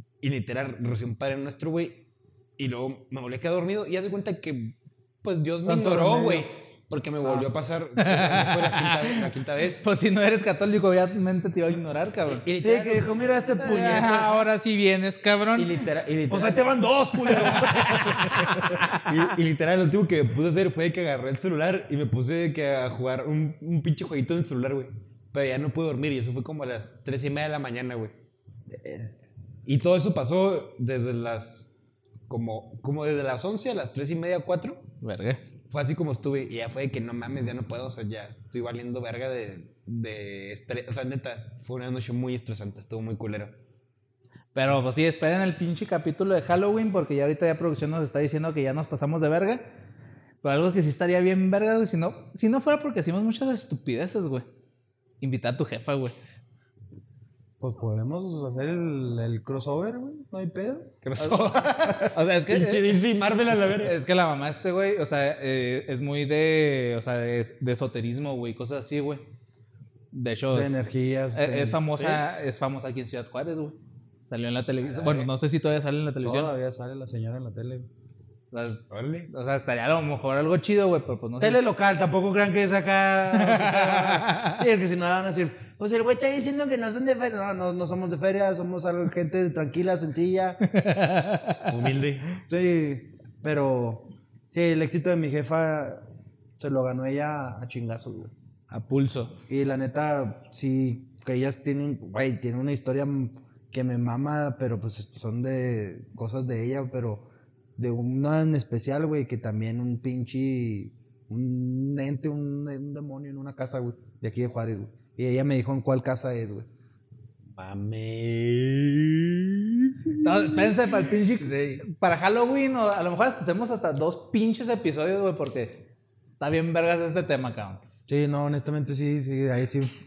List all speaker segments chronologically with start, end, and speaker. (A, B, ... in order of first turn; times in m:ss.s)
0:00.2-0:09.8 A
0:05.6-0:06.5 B
0:08.0-0:09.2 C
0:09.8-0:12.4 C
0:12.3-0:13.6 A
0:12.6-0:14.4 B
0:13.6-0:15.9 C
0:15.6-0:28.2 A
0:16.3-0:18.8 B
0:17.2-0:19.3 C
0:28.8-0:29.1 B
0:29.6-0:31.8 A
0:32.3-0:34.9 A
0:35.0-0:35.4 C
0:35.7-0:43.6 A
0:44.5-0:49.7 C
0:50.4-0:54.4 C
0:55.2-0:56.2 C
0:57.6-1:00.9 B
1:01.0-1:03.9 A
1:01.2-1:03.0 C
1:03.6-1:09.2 C
1:10.1-1:10.7 C
1:10.5-1:11.8 B
1:11.3-1:16.5 C
1:11.9-1:12.2 A
1:16.2-1:17.9 B
1:18.5-1:21.6 C
1:18.9-1:19.3 A
1:21.4-1:30.6 B
1:23.4-1:24.6 C
1:30.6-1:31.8 C
1:31.7-1:32.3 A
1:32.4-1:36.0 B
1:36.6-1:38.3 B
1:38.7-1:39.4 C
1:39.5-1:56.7 B
1:57.6-2:00.0 A
2:00.2-2:05.9 C
2:01.4-2:01.7 B
2:06.4-2:07.8 C
2:08.1-2:09.9 B